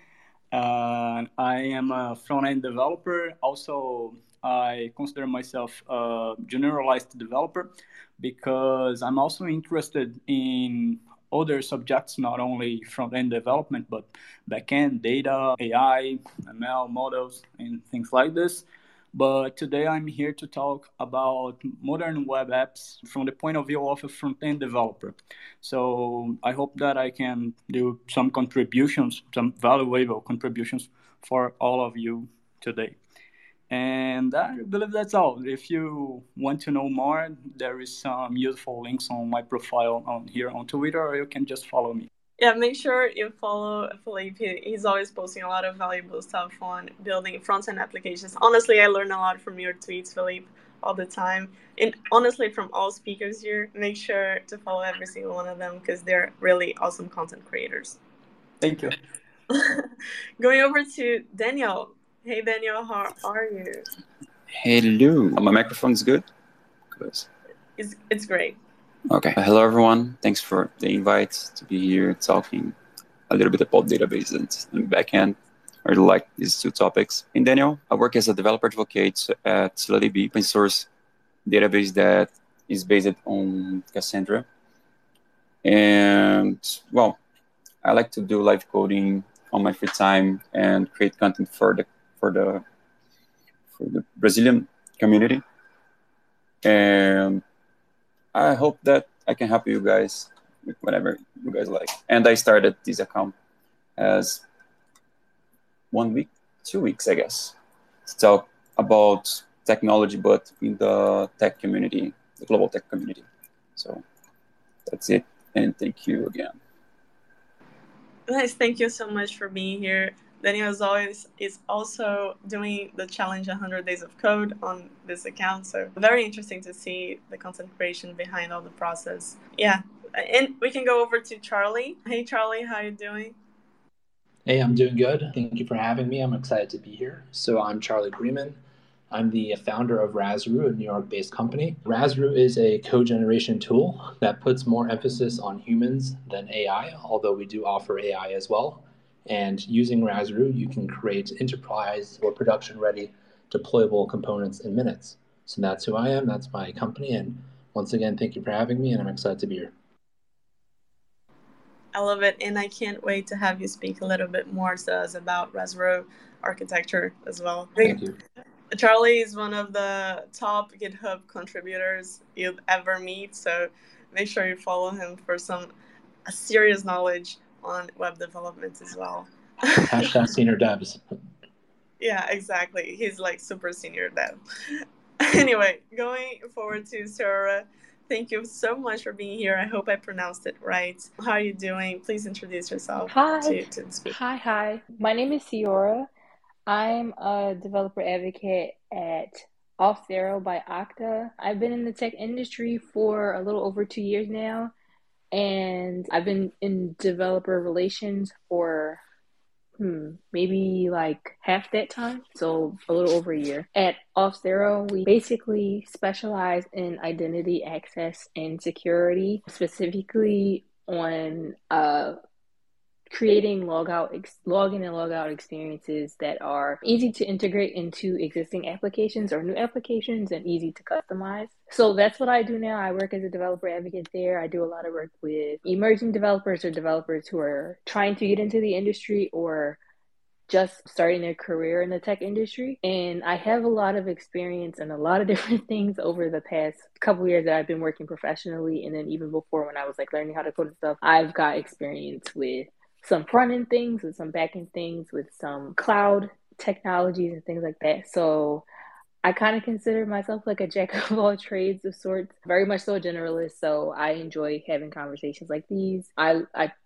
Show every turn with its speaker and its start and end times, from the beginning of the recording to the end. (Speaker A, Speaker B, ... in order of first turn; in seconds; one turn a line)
Speaker A: 0.5-33.0
Speaker A: 33.7-42.1
Speaker B: 42.4-58.0
Speaker A: 58.6-59.0
Speaker B: 59.5-63.9
Speaker C: 64.6-66.2
Speaker C: 66.9-67.3
Speaker B: 67.8-68.6
Speaker C: 69.1-72.8
Speaker C: 73.3-80.9
Speaker C: 81.5-84.5
Speaker C: 85.6-87.2
Speaker C: 87.8-92.6
Speaker C: 93.8-95.4
Speaker C: 96.6-97.4
Speaker C: 98.3-103.3
Speaker C: 104.0-104.4
Speaker C: 105.9-114.0
Speaker C: 114.9-116.5
Speaker B: 118.3-133.3
Speaker D: 134.4-138.6
Speaker D: 139.1-159.7
Speaker B: 161.9-168.0
Speaker D: 167.8-168.2
Speaker B: 168.7-175.7
Speaker B: 176.2-180.1
Speaker D: 179.8-181.0
Speaker B: 182.0-194.1
Speaker E: 193.1-196.1
Speaker E: 196.7-204.7
Speaker E: 205.3-209.0
Speaker E: 209.8-222.2
Speaker E: 223.1-239.8
Speaker E: 240.5-258.6
Speaker E: 259.2-266.7